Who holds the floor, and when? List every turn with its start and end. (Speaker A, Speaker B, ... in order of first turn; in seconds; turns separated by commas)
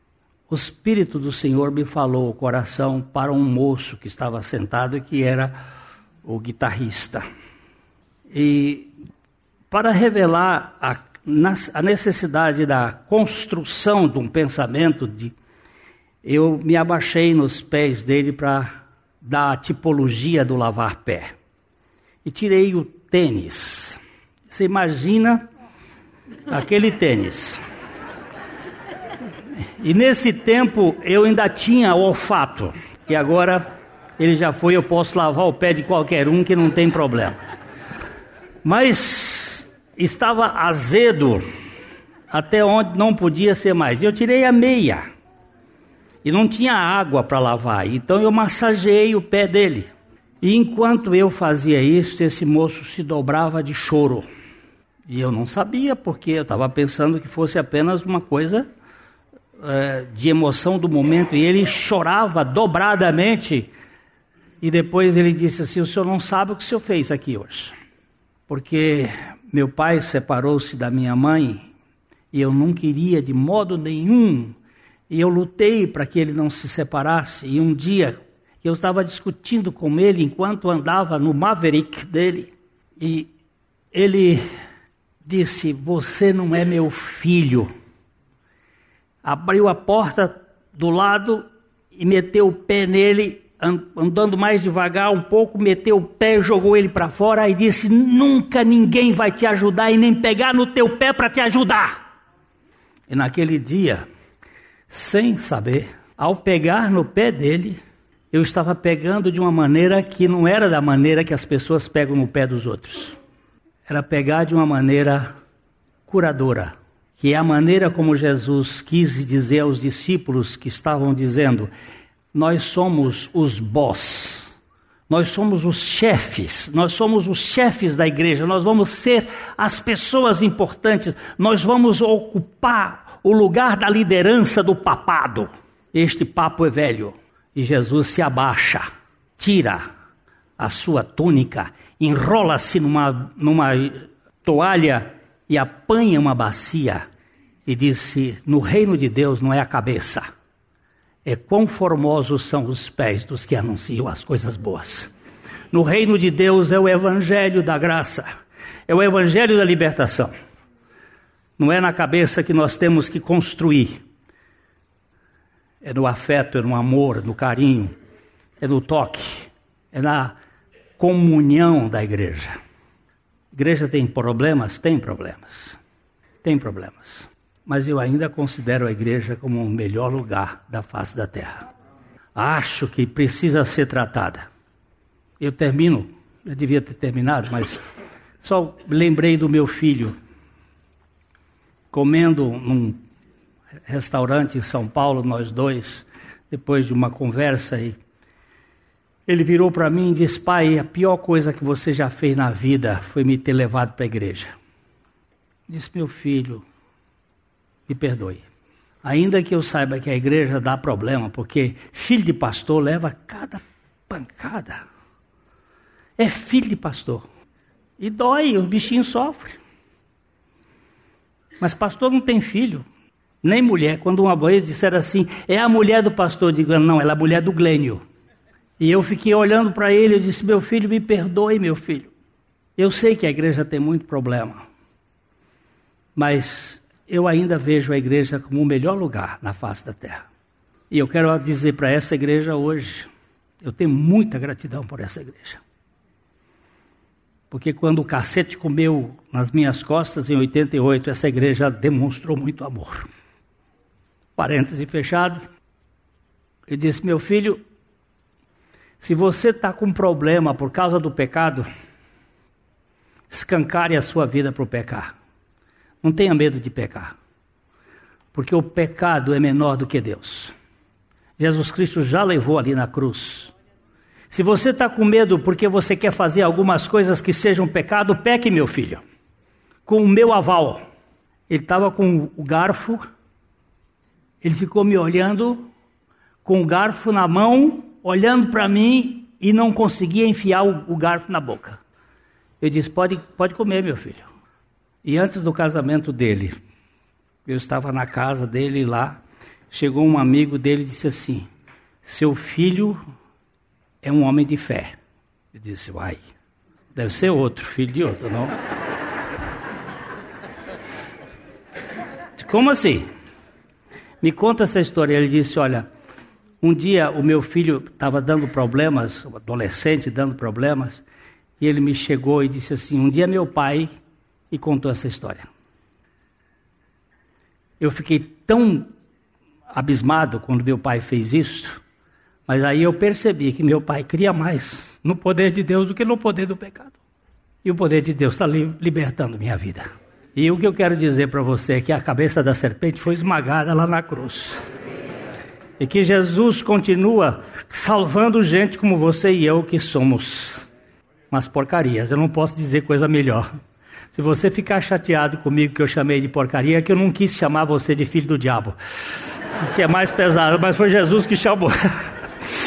Speaker A: 0.5-5.5, Speaker A: 6.2-7.2, Speaker A: 8.3-8.9, Speaker A: 9.7-15.3, Speaker A: 16.2-18.7, Speaker A: 19.2-21.3, Speaker A: 22.2-24.0, Speaker A: 24.5-25.4, Speaker A: 26.5-27.6, Speaker A: 29.8-33.7, Speaker A: 34.2-37.4, Speaker A: 38.6-41.4, Speaker A: 42.3-45.0, Speaker A: 46.2-49.9, Speaker A: 50.4-54.2, Speaker A: 55.1-58.6, Speaker A: 59.6-63.7, Speaker A: 64.6-67.7, Speaker A: 68.5-71.7, Speaker A: 72.3-74.5, Speaker A: 75.1-83.3, Speaker A: 83.9-84.4, Speaker A: 85.2-87.7, Speaker A: 89.2-101.9, Speaker A: 103.1-104.0, Speaker A: 104.9-107.8, Speaker A: 108.3-113.2, Speaker A: 113.9-115.3, Speaker A: 116.1-121.7, Speaker A: 122.3-124.5, Speaker A: 125.1-138.8, Speaker A: 139.4-139.8, Speaker A: 140.6-147.0, Speaker A: 147.7-150.2, Speaker A: 151.2-155.1, Speaker A: 155.7-158.2, Speaker A: 158.9-160.3, Speaker A: 161.6-164.0, Speaker A: 165.8-167.9, Speaker A: 168.6-170.3, Speaker A: 171.0-172.5, Speaker A: 173.5-175.8, Speaker A: 176.4-181.7, Speaker A: 182.3-184.4, Speaker A: 185.4-187.8, Speaker A: 188.4-190.1, Speaker A: 191.9-193.0, Speaker A: 193.9-197.9, Speaker A: 199.3-204.5, Speaker A: 205.7-206.6, Speaker A: 207.9-208.4, Speaker A: 209.0-214.8, Speaker A: 216.2-217.2, Speaker A: 218.0-219.6, Speaker A: 221.6-222.8, Speaker A: 223.4-228.0, Speaker A: 228.8-232.1, Speaker A: 232.8-234.6, Speaker A: 236.2-240.2, Speaker A: 240.9-243.1, Speaker A: 243.6-245.6, Speaker A: 247.5-253.1, Speaker A: 254.3-255.4, Speaker A: 256.7-257.6, Speaker A: 259.0-261.7, Speaker A: 263.3-265.1, Speaker A: 266.0-267.1, Speaker A: 268.3-270.5, Speaker A: 271.4-273.5, Speaker A: 274.3-279.0, Speaker A: 279.9-280.8, Speaker A: 281.5-283.0, Speaker A: 284.4-285.6, Speaker A: 286.4-291.8, Speaker A: 292.6-294.2, Speaker A: 295.0-296.5, Speaker A: 297.4-299.2, Speaker A: 299.7-301.5, Speaker A: 302.0-303.0, Speaker A: 304.0-304.9, Speaker A: 305.5-306.2, Speaker A: 306.9-308.5, Speaker A: 312.4-313.1, Speaker A: 314.2-315.9, Speaker A: 316.6-321.0, Speaker A: 321.6-323.9, Speaker A: 324.5-325.5, Speaker A: 327.8-328.9, Speaker A: 329.7-331.8, Speaker A: 332.5-337.0, Speaker A: 337.6-344.6, Speaker A: 345.8-350.7, Speaker A: 351.3-353.4, Speaker A: 354.1-358.7, Speaker A: 359.6-362.1